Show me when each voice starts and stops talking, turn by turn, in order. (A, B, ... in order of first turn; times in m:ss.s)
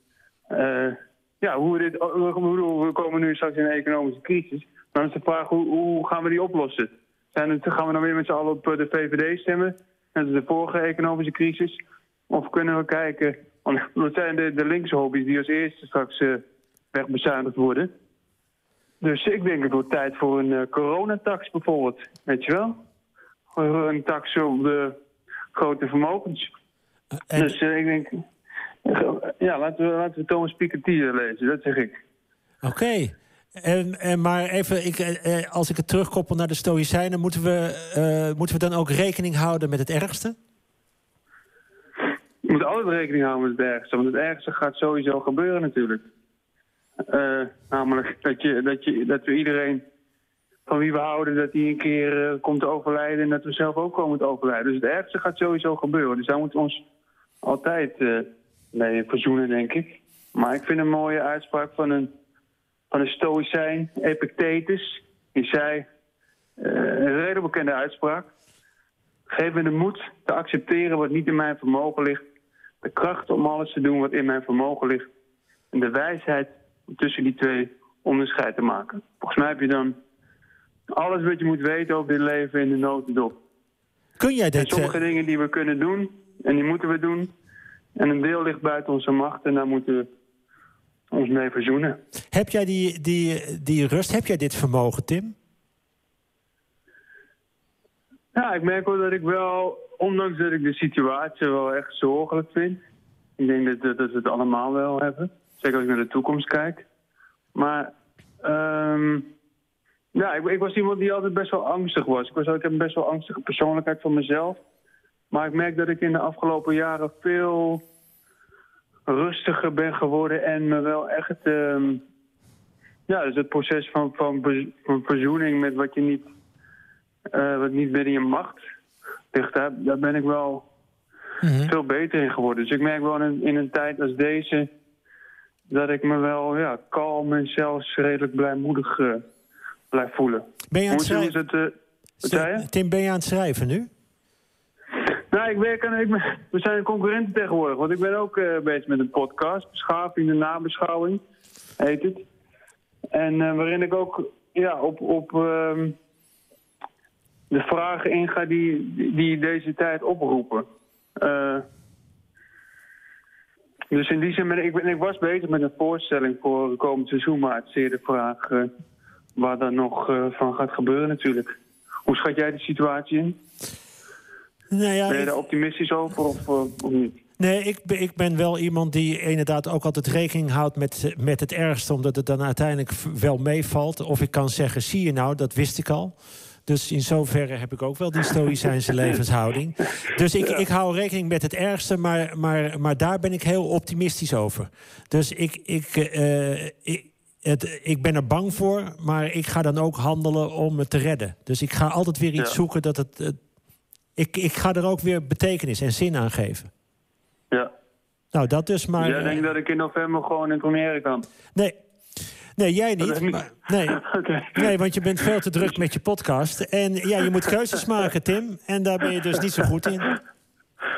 0:00.5-0:17.9 A
0:19.0-0:22.8 A
0:23.5-0:25.0 A
0:25.5-0:26.5 A
0:27.3-0:27.6 B
0:27.3-0:28.2 A
0:28.8-0:32.0 A
0:32.6-0:40.4 B
0:42.4-0:46.0 A
0:47.0-0:49.8 A
0:50.7-0:56.8 A
0:57.4-1:02.1 A
1:02.9-1:05.8 A
1:06.6-1:08.3 A
1:09.3-1:12.2 A
1:12.8-1:15.1 A
1:15.7-1:20.0 A
1:20.9-1:23.3 A
1:24.2-1:25.0 B
1:24.5-1:27.3 A
1:27.9-1:30.1 A
1:31.1-1:32.0 A
1:32.3-1:35.3 B
1:38.3-1:42.8 A
1:43.4-1:46.8 A
1:47.5-1:49.3 A
1:50.1-1:54.6 A
1:55.3-1:57.8 A
1:59.1-2:02.0 A
2:03.1-2:06.3 A
2:07.3-2:08.6 A
2:09.3-2:10.6 A
2:11.4-2:11.7 B
2:11.6-2:14.7 A
2:15.7-2:19.2 A
2:19.9-2:22.7 A
2:20.7-2:21.4 B
2:22.2-2:23.9 B
2:25.3-2:31.2 A
2:31.8-2:32.2 A
2:33.1-2:36.0 A
2:37.5-2:40.6 A
2:41.2-2:41.6 A
2:43.9-2:48.7 A
2:49.4-2:51.5 A
2:52.0-2:53.4 A
2:54.7-2:55.3 B
2:55.1-2:57.2 A
2:57.4-3:06.1 B
3:06.6-3:23.4 B
3:24.2-3:26.7 B
3:28.3-3:29.4 B
3:29.0-3:31.2 A
3:32.6-3:34.0 B
3:33.0-3:34.7 A
3:34.5-3:40.2 B